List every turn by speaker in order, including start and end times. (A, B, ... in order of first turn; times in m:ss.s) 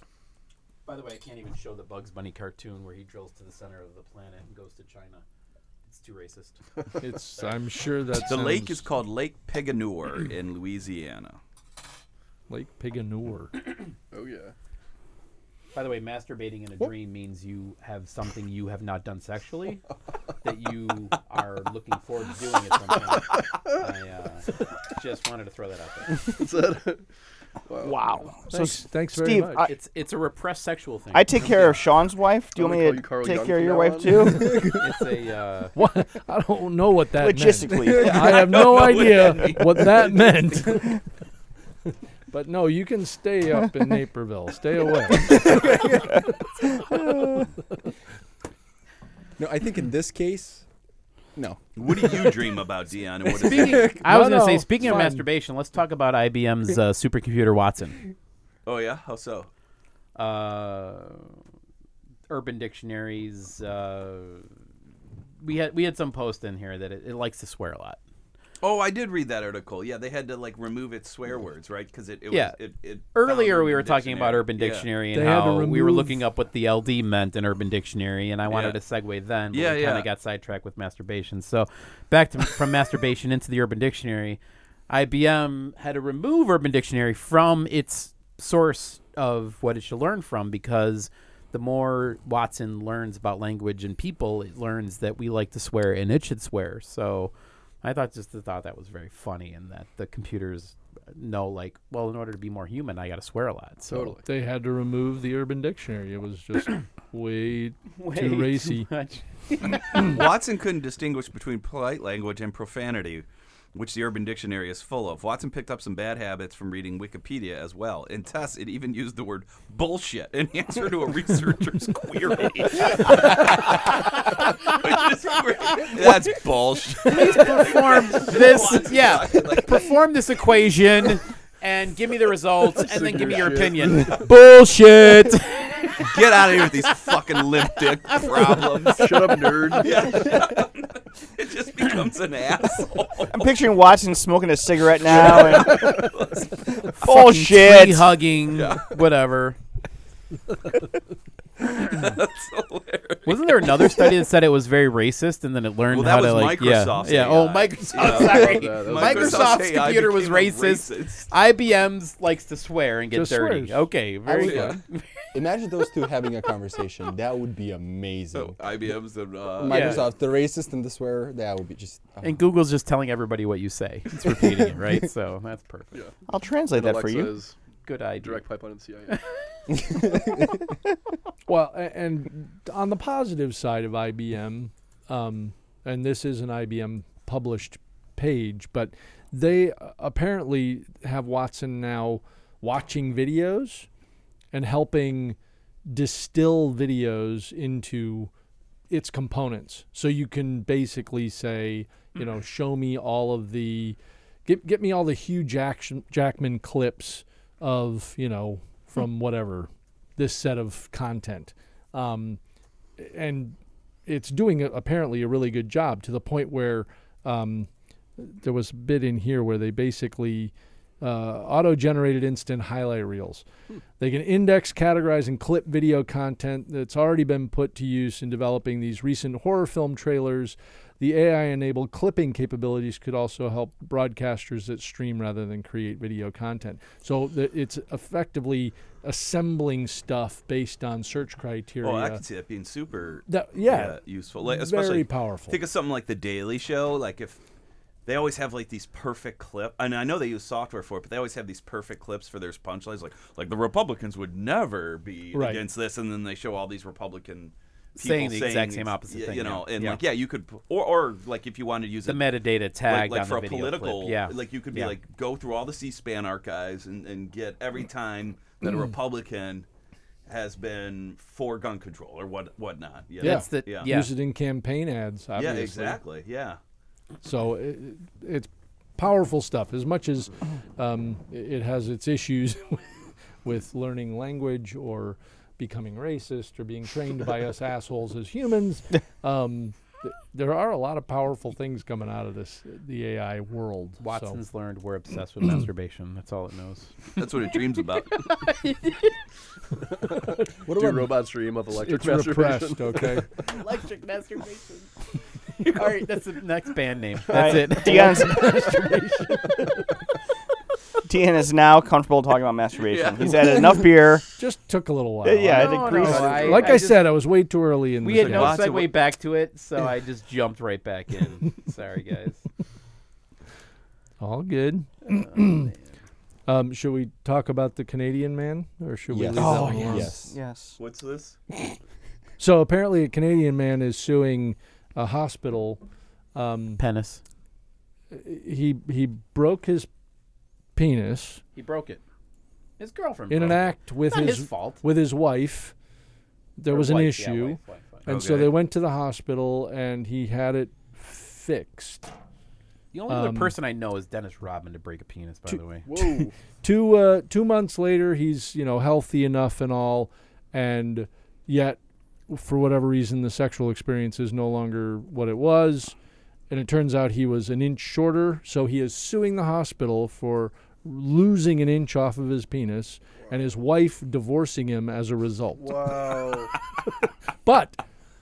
0:00.9-0:05.2 A
0:05.9-0:06.6 A
0:07.0-0:08.9 B
0:08.3-0:11.4 C
0:12.5-0:13.5 B
0:14.1-0:14.5 D
0:15.8-0:19.8 A
0:20.4-0:26.3 A
0:26.1-0:27.0 D
0:27.7-0:28.0 D
0:27.8-0:29.7 E
0:28.5-0:29.6 B
0:29.6-0:31.8 A
0:31.1-0:34.6 E
0:32.6-0:34.3 D
0:34.6-0:35.8 A
0:35.8-0:41.0 B
0:37.2-0:38.3 E
0:37.8-0:40.9 C
0:42.3-0:46.2 B
0:47.0-0:47.4 B
0:49.4-0:50.7 F
0:51.4-0:52.4 F
0:51.8-0:54.0 C
0:53.4-0:58.0 A
0:53.9-0:55.2 B
0:58.6-0:59.5 C
1:00.2-1:01.4 A
1:02.3-1:04.5 A
1:05.4-1:08.0 A
1:08.6-1:14.9 C
1:12.3-1:12.6 A
1:13.1-1:44.2 A
1:15.1-1:16.2 B
1:18.5-1:18.8 C
1:19.5-1:20.1 C
1:43.9-1:44.2 D
1:44.2-1:48.9 B
1:48.0-1:50.1 A
1:49.7-2:09.9 C
2:07.0-2:16.2 A
2:12.8-2:14.2 D
2:16.0-2:23.5 C
2:17.8-2:19.3 A
2:18.9-2:20.3 D
2:23.3-2:26.1 E
2:25.0-2:27.8 C
2:26.8-2:28.1 E
2:27.0-2:29.6 A
2:28.5-2:29.0 C
2:31.6-2:33.7 C
2:33.3-2:45.1 A
2:35.9-2:41.3 C
2:38.0-2:39.6 D
2:43.1-2:44.8 B
2:44.4-2:44.8 C
2:45.3-2:48.6 F
2:48.3-2:50.1 C
2:49.6-2:52.4 F
2:49.7-2:50.1 A
2:52.2-2:56.0 A
2:56.3-2:57.3 E
2:56.7-2:57.6 D
2:57.8-2:58.4 A
2:58.2-2:59.2 D
3:01.5-3:13.9 B
3:14.5-3:15.4 B
3:15.9-3:18.3 B
3:18.9-3:32.4 B
3:33.0-3:43.4 B
3:44.0-4:02.2 B
4:01.8-4:07.4 C
4:03.3-4:05.6 B
4:08.1-4:22.2 C
4:15.3-4:15.6 B
4:18.0-4:20.0 A
4:22.0-4:25.0 A
4:22.9-4:29.7 C
4:30.3-4:33.9 C
4:33.2-4:34.1 A
4:33.2-4:36.0 B
4:35.4-4:36.6 C
4:37.2-4:54.4 B
4:54.0-4:57.5 A
4:57.2-4:58.2 C
4:58.0-4:59.2 A
5:00.1-5:03.2 D
5:00.7-5:01.1 B
5:01.7-5:03.3 B
5:03.4-5:04.9 A
5:05.6-5:06.0 C
5:05.6-5:08.7 A
5:07.3-5:08.7 E
5:08.0-5:09.7 B
5:11.0-5:14.3 E
5:12.9-5:13.4 C
5:14.4-5:18.7 B
5:15.2-5:16.7 E
5:15.5-5:17.2 A
5:16.0-5:16.8 D
5:18.0-5:22.4 A
5:18.1-5:19.0 C
5:24.2-5:25.7 B
5:25.1-5:25.9 A
5:26.5-5:30.2 B
5:29.1-5:30.3 F
5:29.4-5:30.8 E
5:30.8-5:31.4 C
5:32.4-5:35.8 B
5:36.4-5:36.8 B
5:36.8-5:37.2 A
5:38.1-5:39.9 B
5:40.8-5:41.4 B
5:41.6-5:42.0 A
5:42.8-5:44.8 A
5:43.3-5:45.7 B
5:46.6-5:52.1 B
5:46.7-5:48.1 A
5:48.1-5:48.6 C
5:52.9-5:55.8 A
5:53.1-5:53.5 B
5:55.8-5:56.4 D
5:56.6-6:01.8 B
6:02.3-6:06.0 B
6:06.5-6:16.1 B
6:15.6-6:16.5 D
6:17.4-6:17.8 B